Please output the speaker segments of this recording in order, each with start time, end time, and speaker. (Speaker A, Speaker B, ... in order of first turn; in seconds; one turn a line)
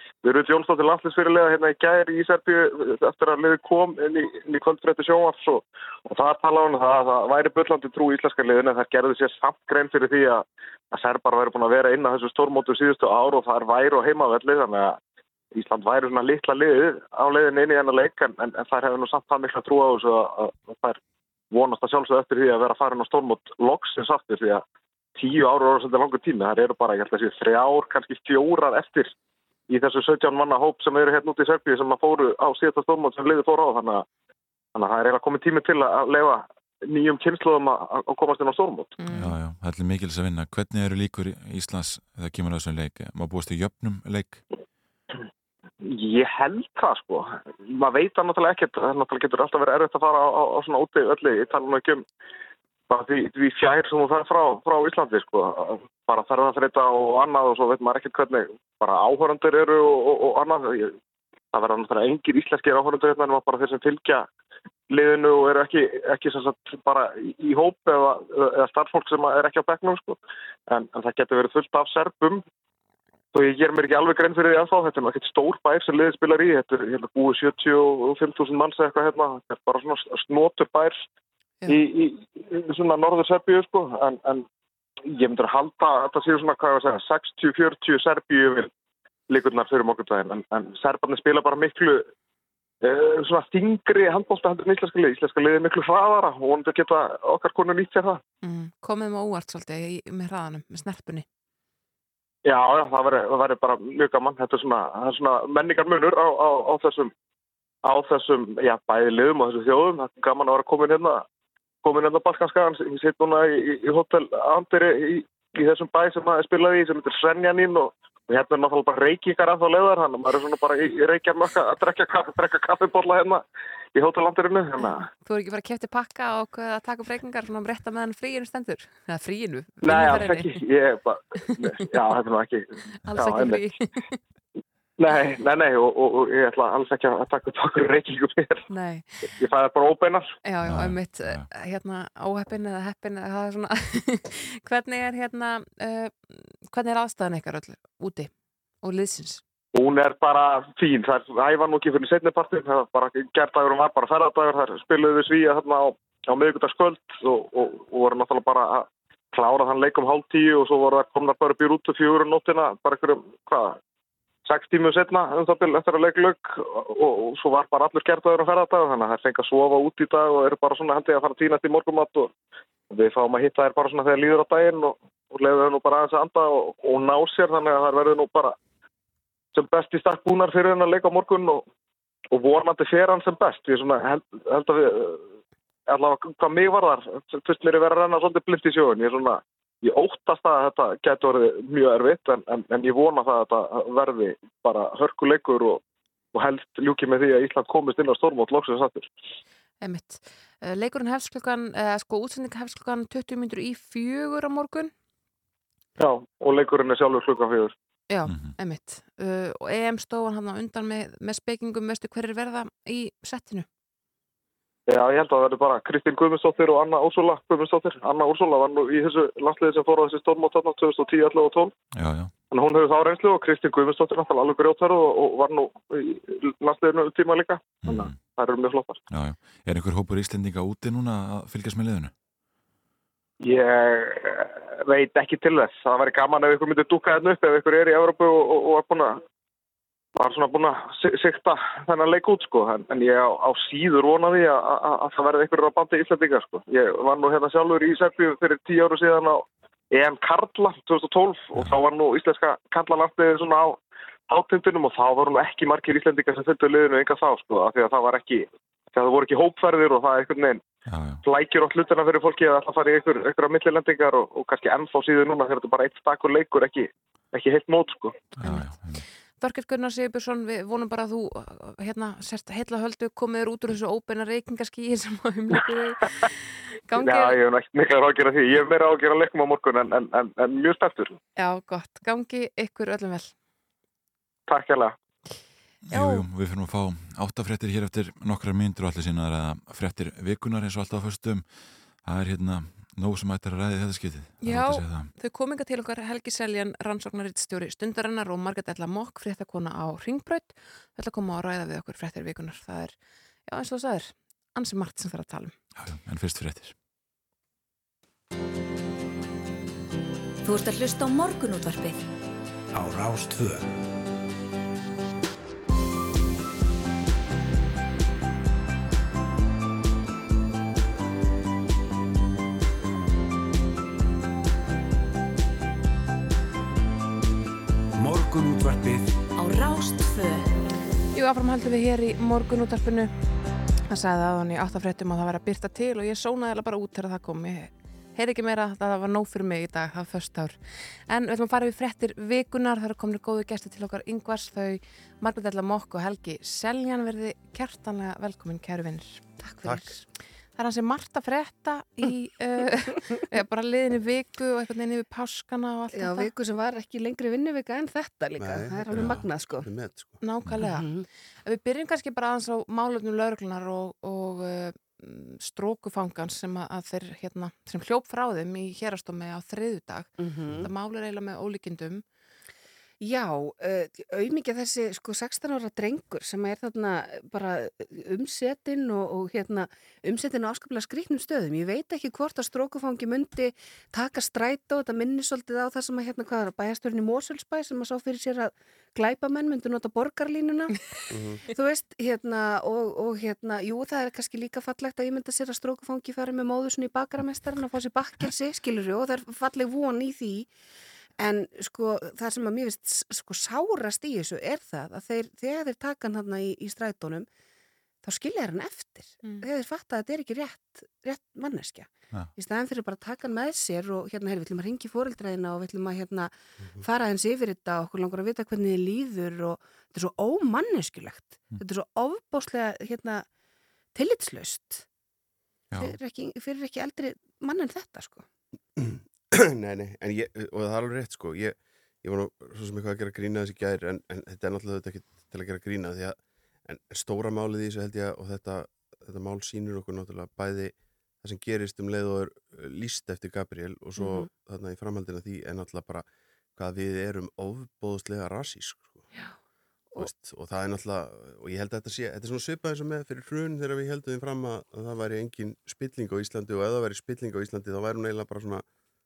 Speaker A: 0.2-15.0
Speaker A: 15.6-21.0
Speaker A: 21.5-24.6
Speaker A: 25.2-29.1
Speaker A: 29.7-34.0
Speaker A: 34.8-39.0
Speaker B: 39.0-39.4
Speaker C: 39.1-44.4
Speaker A: 45.9-52.0
Speaker A: 52.9-61.0
Speaker A: 61.5-64.3
Speaker A: 64.9-70.2
Speaker A: 70.7-72.4
Speaker A: 73.3-81.0
Speaker A: 81.7-84.5
Speaker A: 85.1-88.7
Speaker A: 89.3-92.0
Speaker A: 92.8-98.2
Speaker B: 98.4-101.2
Speaker A: 102.5-107.1
Speaker A: 107.9-111.2
Speaker A: 111.8-123.4
Speaker A: 124.0-125.1
Speaker B: 125.2-130.6
Speaker A: 129.8-133.7
Speaker B: 133.1-134.2
Speaker A: 135.0-138.7
Speaker B: 138.7-139.1
Speaker A: 139.4-140.3
Speaker B: 140.4-149.4
Speaker C: 140.6-141.5
Speaker A: 149.8-163.8
Speaker A: 164.5-172.3
Speaker A: 172.9-178.6
Speaker A: 179.6-181.7
Speaker A: 182.3-185.3
Speaker A: 185.9-195.8
Speaker A: 196.3-199.1
Speaker B: 199.8-204.9
Speaker A: 206.0-207.7
Speaker B: 208.1-213.7
Speaker C: 208.3-208.6
Speaker A: 214.9-221.7
Speaker C: 221.9-222.3
Speaker A: 222.5-229.0
Speaker C: 227.8-228.2
Speaker C: 229.1-232.1
Speaker A: 233.4-239.2
Speaker A: 240.2-253.8
Speaker A: 254.3-260.6
Speaker C: 260.9-261.2
Speaker A: 261.2-268.1
Speaker C: 268.4-269.1
Speaker B: 268.4-268.7
Speaker B: 269.4-277.4
Speaker A: 276.9-281.2
Speaker B: 281.4-283.3
Speaker A: 284.5-284.9
Speaker C: 285.9-291.5
Speaker B: 285.9-286.2
Speaker C: 292.0-295.1
Speaker B: 294.4-303.0
Speaker B: 303.5-305.5
Speaker C: 305.8-306.8
Speaker D: 310.4-312.1
Speaker E: 312.7-313.7
Speaker E: 328.0-329.1
Speaker D: 329.4-330.6
Speaker B: 331.1-333.1
Speaker B: 333.9-350.0
Speaker F: 349.4-350.0
Speaker G: 349.6-349.9
Speaker B: 350.6-356.3
Speaker F: 355.9-359.7
Speaker G: 358.4-360.2
Speaker B: 360.2-360.9
Speaker F: 360.6-361.1
Speaker B: 361.4-372.0
Speaker F: 370.2-370.6
Speaker F: 373.0-390.8
Speaker G: 391.1-391.4
Speaker F: 391.5-400.5
Speaker F: 401.2-407.3
Speaker F: 408.0-423.2
Speaker F: 423.9-424.9
Speaker C: 425.7-426.0
Speaker F: 425.8-428.3
Speaker G: 428.8-446.1
Speaker F: 444.0-444.3
Speaker G: 446.6-449.1
Speaker G: 450.0-458.6